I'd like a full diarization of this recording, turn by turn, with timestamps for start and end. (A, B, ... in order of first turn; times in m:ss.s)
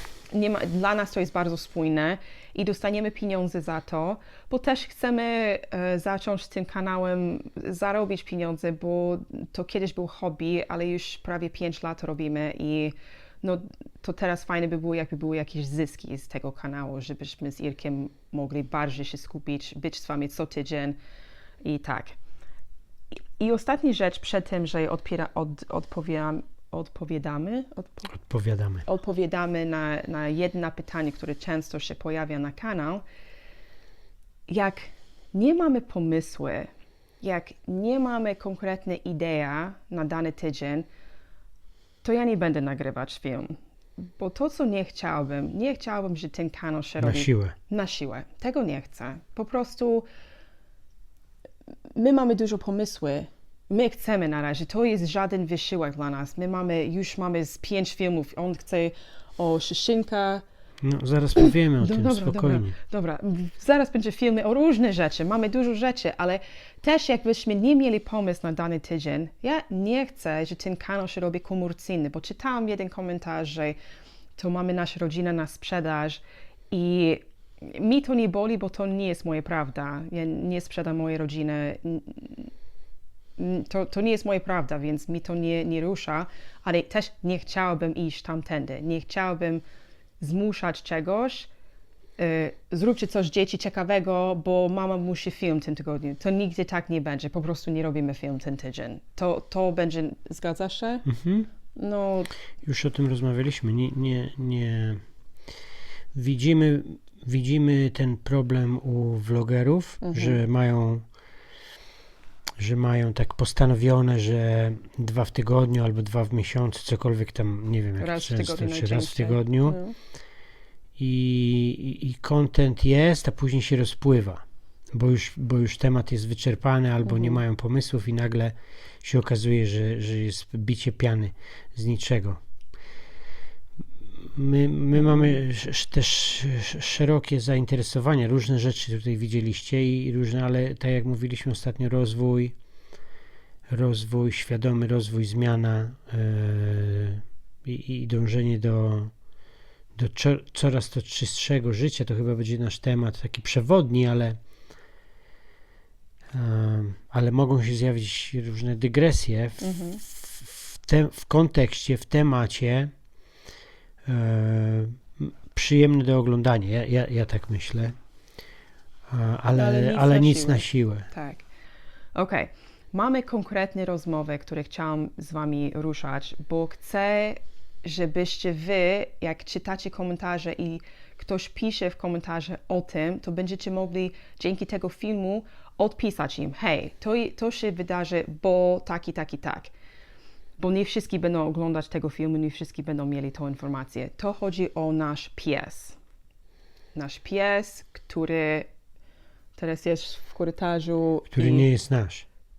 0:00.3-0:21.0 A
0:21.6-0:22.2 A
0:23.4-0:28.2 A
0:28.1-0:28.8 B
0:28.8-0:33.0 A
0:34.5-0:36.7 A
0:37.2-0:40.9 A
0:42.0-0:50.1 A
0:47.0-0:47.6 B
0:51.9-1:00.4 A
1:00.8-1:02.8 B
1:01.4-1:13.8 A
1:14.4-1:22.5 A
1:23.4-1:29.6 A
1:30.2-1:31.5 A
1:32.2-1:41.1 A
1:41.1-1:41.5 B
1:41.8-1:42.3 A
1:42.6-1:45.0 B
1:46.1-1:51.0 B
1:50.0-1:50.4 A
1:52.6-1:59.8 B
1:58.0-2:00.0 A
2:01.0-2:12.4 B
2:07.1-2:07.4 A
2:14.2-2:22.6 B
2:23.7-2:29.1 B
2:30.0-2:34.4 B
2:36.3-2:42.9 B
2:39.6-2:40.0 A
2:44.0-2:48.0 B
2:49.1-2:51.1 B
2:49.5-2:51.5 A
2:52.2-3:09.7 A
3:10.6-3:16.0 A
3:17.0-3:18.7 A
3:19.6-3:21.7 A
3:21.3-3:22.3 B